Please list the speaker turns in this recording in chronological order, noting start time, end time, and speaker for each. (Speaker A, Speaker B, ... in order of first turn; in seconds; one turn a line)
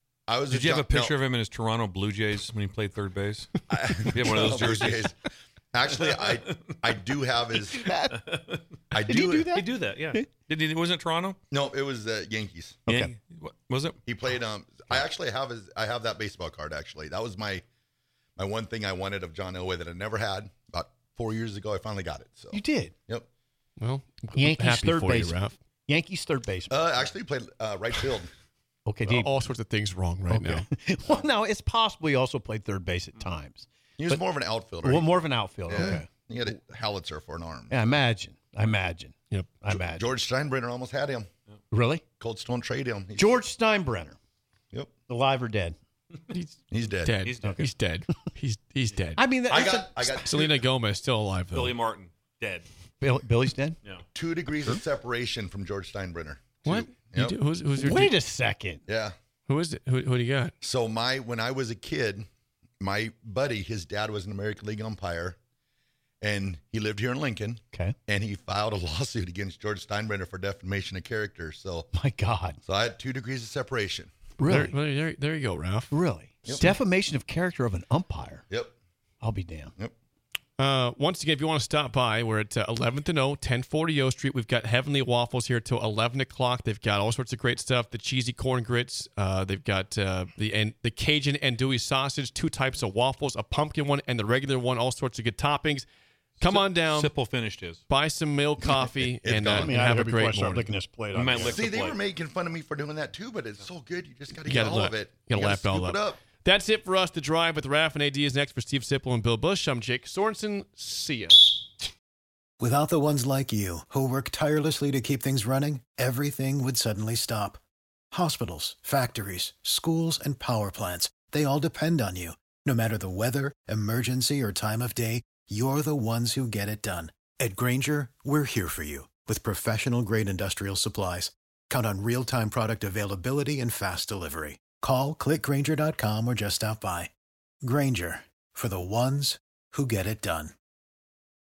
Speaker A: 0.3-1.1
Speaker B: 0.5-3.5
Speaker A: 3.7-7.9
Speaker B: 4.1-5.1
Speaker B: 5.9-6.6
Speaker C: 7.8-8.3
Speaker B: 8.3-8.6
Speaker A: 8.9-9.6
Speaker C: 9.0-10.2
Speaker B: 9.5-11.4
Speaker A: 11.5-12.8
Speaker C: 12.9-13.1
Speaker B: 12.9-14.0
Speaker A: 14.0-17.6
Speaker A: 18.4-23.2
Speaker C: 22.5-22.9
Speaker D: 23.8-25.5
Speaker C: 24.3-27.1
Speaker A: 26.7-28.3
Speaker C: 28.8-29.3
Speaker D: 29.1-30.6
Speaker C: 30.3-34.2
Speaker A: 34.0-37.8
Speaker C: 34.8-36.1
Speaker C: 37.7-40.1
Speaker D: 39.3-39.6
Speaker A: 39.7-41.3
Speaker C: 41.7-42.0
Speaker A: 42.2-43.4
Speaker C: 43.1-44.1
Speaker C: 45.1-45.8
Speaker D: 46.3-49.2
Speaker A: 46.7-47.3
Speaker B: 47.2-47.6
Speaker C: 47.4-47.7
Speaker C: 49.1-50.3
Speaker A: 49.5-50.6
Speaker D: 50.2-51.8
Speaker B: 51.5-52.6
Speaker C: 53.0-53.8
Speaker A: 54.1-57.4
Speaker D: 56.6-58.2
Speaker C: 57.8-58.8
Speaker A: 58.9-59.1
Speaker D: 59.5-60.5
Speaker A: 60.6-62.3
Speaker A: 62.8-65.4
Speaker A: 66.2-71.9
Speaker C: 71.9-72.6
Speaker A: 72.6-74.1
Speaker C: 74.4-74.8
Speaker D: 74.5-75.9
Speaker C: 75.9-78.4
Speaker C: 79.2-79.7
Speaker D: 80.6-95.8
Speaker D: 96.4-97.1
Speaker B: 96.4-97.8
Speaker D: 97.9-100.7
Speaker A: 99.2-99.8
Speaker C: 99.5-101.7
Speaker B: 101.1-102.0
Speaker A: 101.4-106.2
Speaker D: 104.4-111.6
Speaker E: 112.6-117.6
Speaker E: 118.1-137.1
Speaker E: 137.6-140.5